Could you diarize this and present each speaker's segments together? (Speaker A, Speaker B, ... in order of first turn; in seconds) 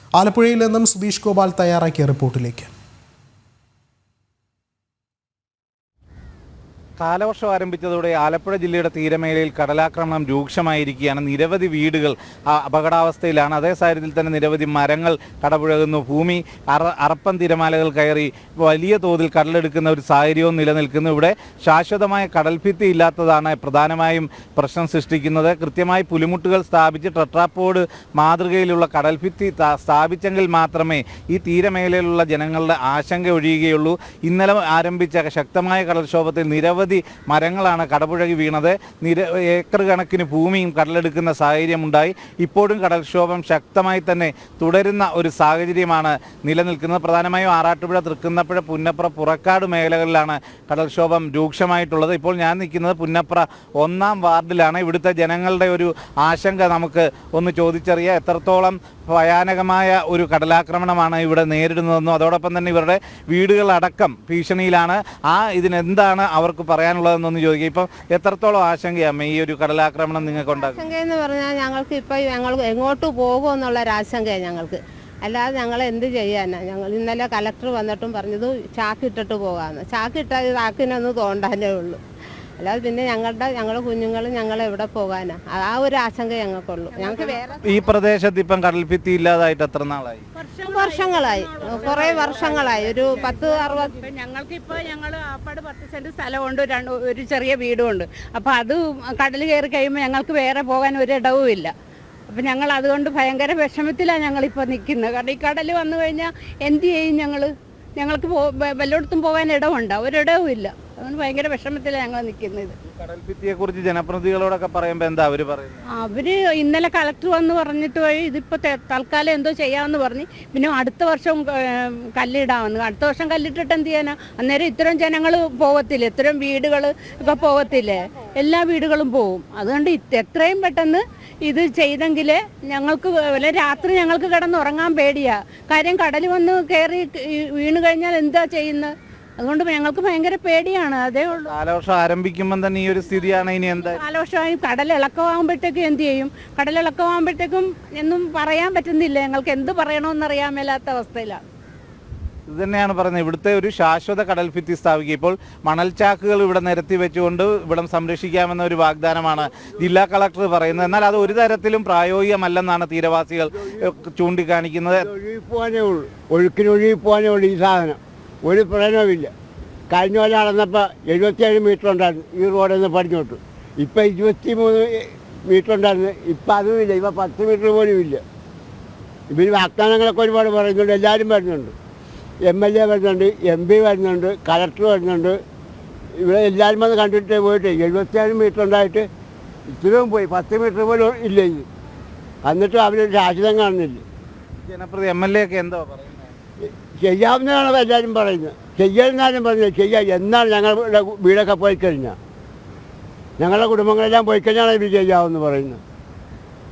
Speaker A: 0.2-2.7
Speaker B: 7.0-70.9, 87.6-90.2, 112.9-115.8, 141.4-144.0, 152.5-165.1, 194.6-196.3
Speaker C: 70.3-82.0, 82.6-87.8, 90.7-93.9
Speaker D: 86.9-87.5, 90.3-101.7, 102.3-112.8, 115.9-141.5, 143.9-151.4
Speaker E: 163.6-163.8, 164.9-169.3, 169.9-178.2, 179.3-181.7, 182.4-185.4, 186.2-189.1, 189.7-191.7, 192.4-194.0, 197.0-202.2, 203.4-205.8